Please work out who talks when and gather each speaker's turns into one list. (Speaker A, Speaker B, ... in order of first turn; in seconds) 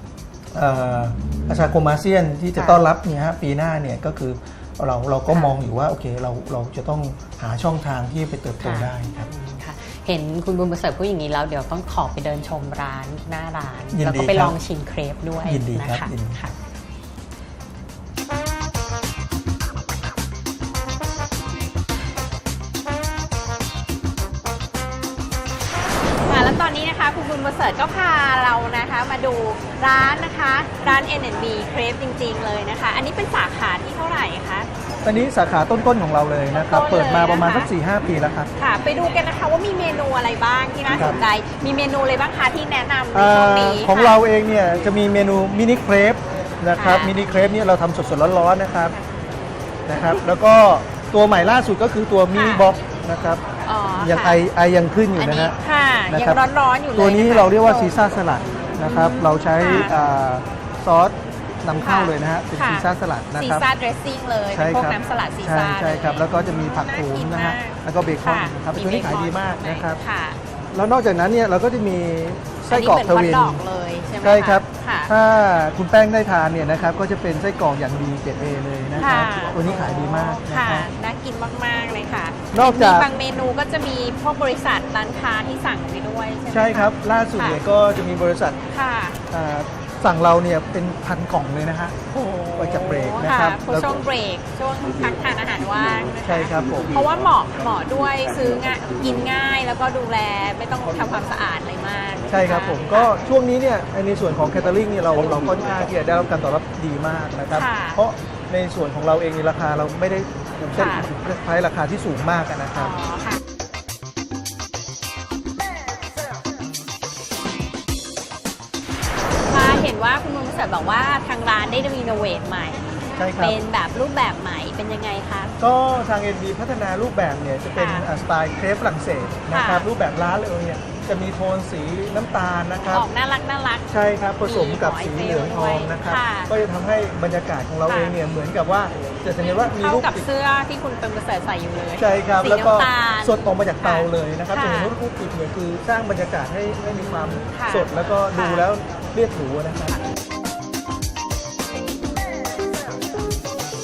Speaker A: 0.5-9.3, 13.9-14.6, 15.4-16.4, 35.0-38.5, 40.9-41.2, 43.1-49.0, 49.9-53.4, 54.0-55.6, 56.1-63.7, 64.5-70.0, 70.7-73.7, 74.2-80.9, 82.5-83.1, 86.5-88.6, 89.3-92.0, 92.5-94.0, 96.2-97.1, 102.3-113.0, 123.2-123.6, 125.6-133.1, 133.9-140.3, 142.0-150.0
Speaker B: 2.6-2.8, 5.3-5.6, 8.6-16.5, 26.3-34.7, 36.5-37.7, 38.6-44.2, 46.8-47.1, 52.3-52.7, 53.6-54.4, 55.2-57.9, 58.8-59.9, 61.8-62.9, 63.4-70.4, 72.7-75.1, 79.0-87.6, 88.7-89.2, 92.1-103.1, 107.5-108.0, 110.8-111.1, 112.8-113.4, 119.5-122.8, 123.4-125.6, 127.8-128.1, 129.5-129.9, 132.9-133.9, 134.4-136.5, 137.9-138.1, 139.4-144.9, 146.9-148.6